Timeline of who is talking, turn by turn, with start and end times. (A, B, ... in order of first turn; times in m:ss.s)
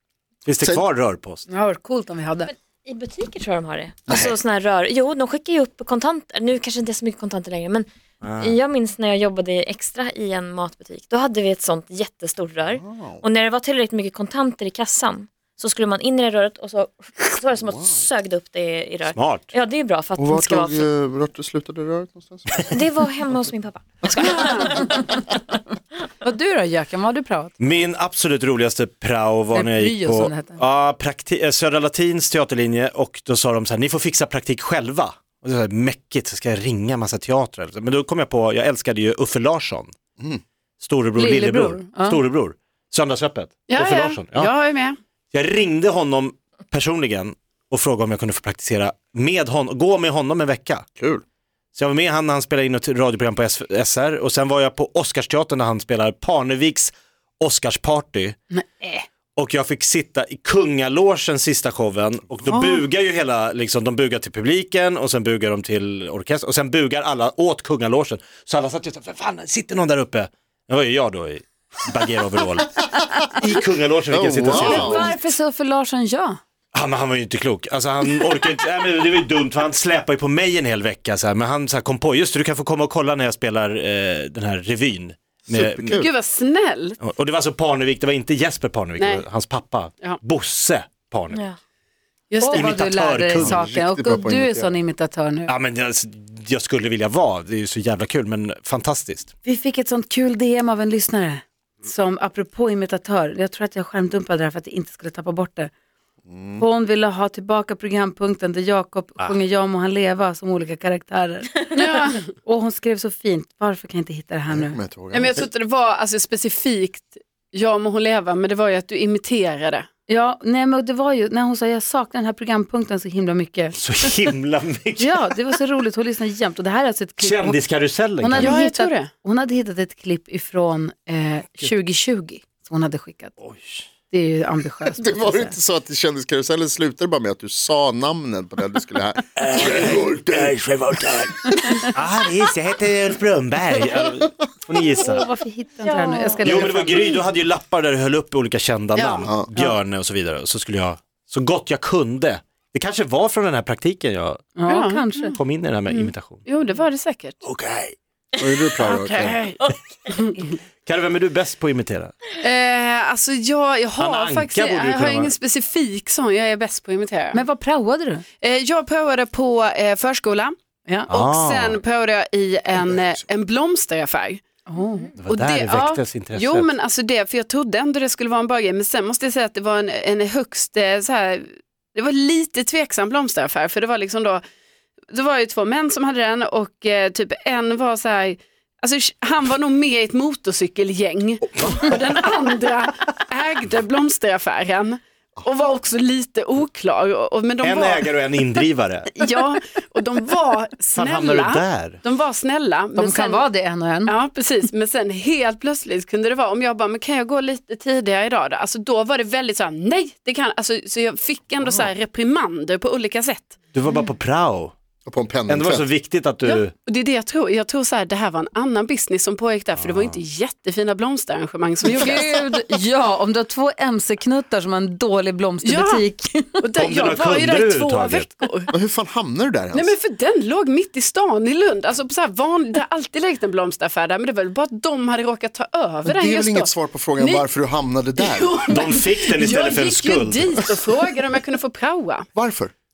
0:00.4-0:01.5 A
0:01.5-0:02.5 B
0:02.8-0:20.9 C
0:04.1-0:04.4 D
0:08.2-0:08.6 A
0:12.7-0:13.2 D
0:17.6-0:18.0 D
0:19.1-0:19.5 A
0:20.2-0:22.8 D
0:22.6-0:25.3 C
0:24.1-0:24.3 D
0:24.8-0:25.2 B
0:26.2-0:27.5 B
0:27.6-0:39.9 A
0:29.5-0:30.6 B
0:40.8-0:44.5 A
0:41.2-0:42.2 B
0:43.7-0:45.0 E
0:45.3-0:50.9 A
0:51.0-0:51.2 D
0:51.8-0:58.4 A
0:58.5-0:59.1 B
0:59.4-1:15.1 A
1:02.5-1:02.8 D
1:14.1-1:15.2 D
1:14.5-1:16.4 B
1:16.7-1:26.0 A
1:25.5-1:26.1 D
1:26.0-1:27.0 E
1:27.0-1:31.4 A
1:29.0-1:29.2 E
1:31.3-1:31.6 C
1:32.3-1:32.8 E
1:32.4-1:35.5 B
1:32.5-1:33.6 A
1:33.3-1:34.7 D
1:35.5-1:39.3 A
1:39.4-1:45.7 B
1:46.3-1:46.7 D
1:46.6-1:54.8 B
1:51.7-1:52.3 E
1:54.5-1:55.4 D
1:55.1-1:59.9 E
2:00.1-2:03.8 B
2:03.8-2:05.3 A
2:05.0-2:07.6 B
2:07.2-2:08.6 A
2:08.2-2:13.4 B
2:08.4-2:09.1 E
2:13.4-2:13.8 A
2:14.1-2:15.6 B
2:14.9-2:20.5 D
2:19.4-2:25.3 A
2:25.0-2:27.1 B
2:25.8-2:26.6 C
2:26.4-2:34.6 A
2:29.0-2:29.7 E
2:34.6-2:35.4 B
2:34.7-2:35.3 E
2:35.3-2:36.5 A
2:35.9-2:37.4 E
2:37.4-2:38.0 A
2:38.4-2:39.4 D
2:38.8-2:40.5 E
2:40.8-2:42.3 A
2:42.4-2:47.4 E
2:44.0-2:45.4 A
2:47.3-2:48.2 B
2:48.4-2:50.6 E
2:51.1-2:51.8 A
2:51.1-2:54.4 E
2:54.7-2:55.1 B
2:55.2-2:56.7 A
2:55.3-3:04.4 E
3:05.1-3:23.5 E
3:17.6-3:19.2 A
3:20.9-3:22.0 A
3:23.0-3:24.2 B
3:24.1-3:33.6 E
3:33.7-3:34.8 A
3:35.1-3:35.9 D
3:35.5-3:36.7 A
3:36.4-3:42.5 E
3:39.8-3:40.2 A
3:42.0-3:46.6 B
3:45.6-3:46.1 E
3:46.6-3:48.7 E
3:46.8-3:48.3 A
3:48.7-3:49.9 D
3:49.7-3:57.5 E
3:56.1-3:58.6 D
3:58.2-4:02.3 E
3:58.7-4:00.6 A
4:02.3-4:02.7 D